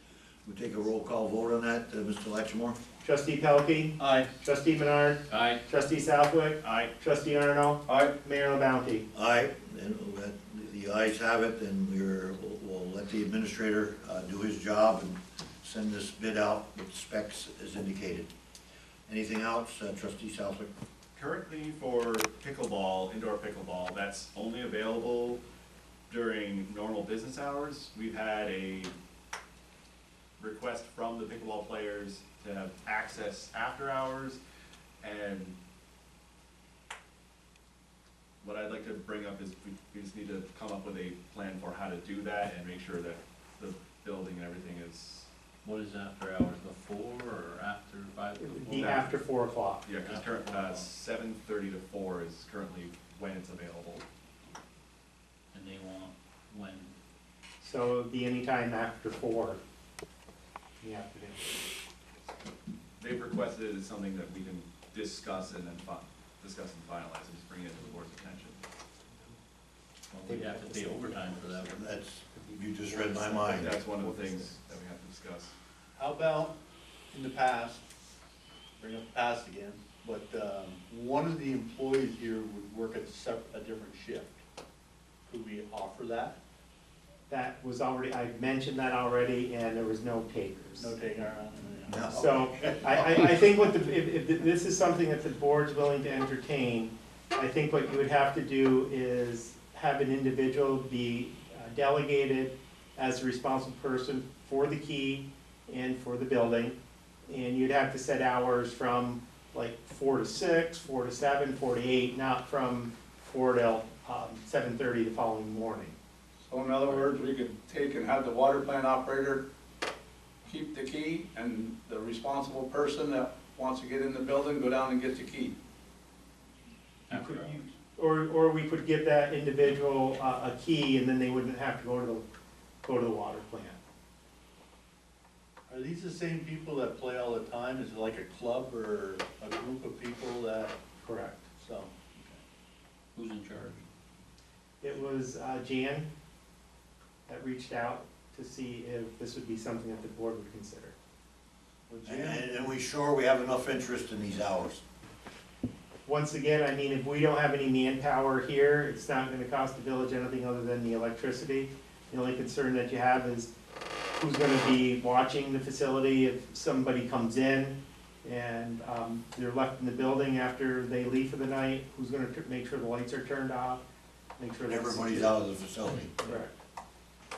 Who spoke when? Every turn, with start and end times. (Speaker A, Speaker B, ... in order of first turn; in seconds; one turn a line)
Speaker A: 0.5-2.8
Speaker B: 3.0-9.1
Speaker C: 4.0-4.3
Speaker D: 5.3-5.6
Speaker E: 6.6-6.9
Speaker A: 9.1-18.3
Speaker A: 19.1-20.7
Speaker E: 21.1-25.4
Speaker E: 26.1-28.9
Speaker E: 30.4-34.4
Speaker E: 35.0-35.5
Speaker E: 38.4-45.3
Speaker D: 45.6-49.2
Speaker B: 48.4-49.9
Speaker E: 49.8-54.0
Speaker D: 50.0-50.9
Speaker D: 55.5-57.0
Speaker B: 57.6-59.6
Speaker B: 60.8-61.7
Speaker E: 63.0-68.6
Speaker D: 70.1-71.8
Speaker B: 70.3-71.5
Speaker A: 71.7-73.8
Speaker B: 72.3-74.7
Speaker E: 73.5-75.5
Speaker C: 76.0-76.6
Speaker C: 77.1-77.8
Speaker C: 78.8-84.4
Speaker C: 85.3-86.4
Speaker B: 87.3-90.9
Speaker C: 90.8-93.2
Speaker A: 91.9-92.4
Speaker B: 92.1-116.0
Speaker F: 116.5-119.5
Speaker F: 120.5-125.5
Speaker D: 127.1-127.6
Speaker B: 127.1-132.2
Speaker B: 132.8-133.8
Speaker C: 135.7-140.8
Speaker B: 141.0-141.5
Speaker C: 141.5-142.3
Speaker D: 143.2-143.8
Speaker B: 144.8-146.1
Speaker B: 147.3-150.9
Speaker C: 151.9-152.7
Speaker A: 152.1-154.8
Speaker B: 156.1-163.5
Speaker B: 164.2-173.8
Speaker B: 174.4-175.4
Speaker A: 174.7-176.2
Speaker B: 176.2-176.5